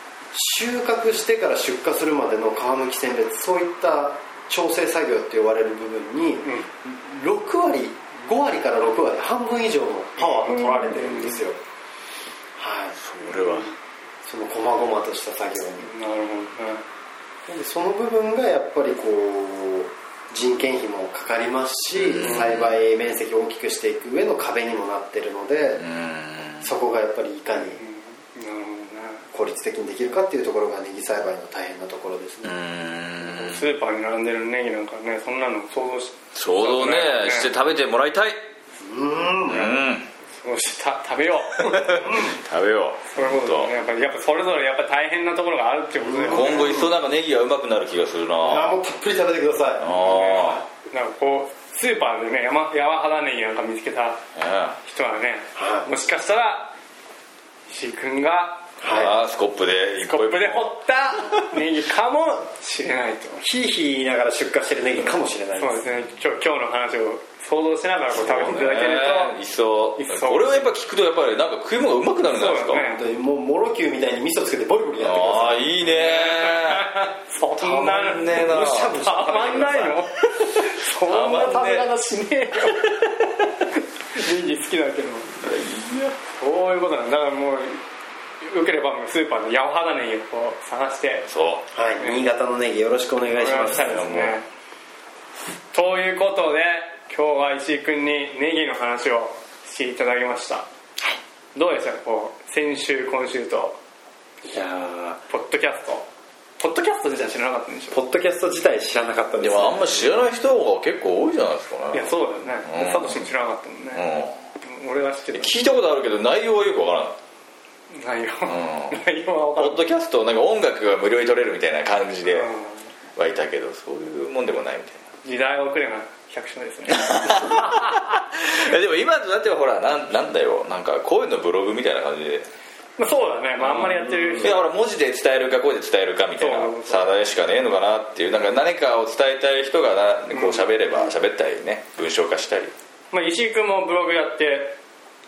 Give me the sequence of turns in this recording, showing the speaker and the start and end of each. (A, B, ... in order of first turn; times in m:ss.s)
0:00.3-0:11.6 A
0:10.2-0:11.4 B
0:12.6-0:13.0 A
0:13.0-0:13.7 C
0:14.2-0:15.9 A
0:15.8-0:16.8 B
0:17.4-0:25.8 A
0:21.9-0:22.7 C
0:25.8-0:26.7 C
0:26.6-0:27.8 A
0:27.6-0:29.3 B
0:29.3-0:32.5 A
0:32.4-0:33.6 C
0:33.3-0:37.5 B
0:36.3-0:38.4 C
0:38.8-0:39.9 A
0:39.5-0:40.1 C
0:40.4-0:42.3 B
0:41.6-0:43.7 C
0:43.1-0:46.8 B
0:46.0-0:46.9 A
0:46.3-0:48.8 C
0:48.4-0:49.9 A
0:49.8-0:50.6 C
0:50.0-0:54.2 B
0:54.4-0:54.8 C
0:54.8-0:56.7 B
0:55.6-0:55.9 A
0:57.7-0:58.7 B
0:58.8-0:59.1 A
0:58.8-1:01.6 C
1:00.1-1:03.4 B
1:03.4-1:05.8 A
1:05.6-1:09.4 B
1:08.1-1:12.8 C
1:10.0-1:10.7 B
1:12.3-1:13.0 B
1:12.7-1:15.7 A
1:15.0-1:17.0 C
1:16.0-1:23.0 B
1:17.6-1:19.0 C
1:18.2-1:19.9 A
1:20.5-1:21.9 C
1:24.1-1:25.3 B
1:25.4-1:26.2 C
1:26.4-1:27.8 B
1:28.4-1:31.3 B
1:31.3-1:31.6 C
1:31.7-1:34.1 A
1:32.0-1:32.2 B
1:33.3-1:34.4 B
1:33.6-1:34.4 C
1:35.7-1:40.7 B
1:41.5-1:43.8 B
1:44.5-1:45.2 A
1:45.3-1:46.0 B
1:46.6-1:48.0 B
1:47.9-1:50.2 A
1:49.4-1:53.3 C
1:51.9-1:54.0 B
1:53.9-1:54.4 C
1:54.6-1:55.8 B
1:55.3-1:57.2 C
1:57.9-1:59.8 B
1:58.5-1:59.0 C
1:59.6-2:02.5 C
2:02.3-2:02.8 B
2:03.2-2:05.0 C
2:05.2-2:07.8 B
2:06.9-2:12.4 C
2:13.0-2:14.6 B
2:13.6-2:22.7 C
2:16.4-2:17.1 B
2:23.1-2:24.7 B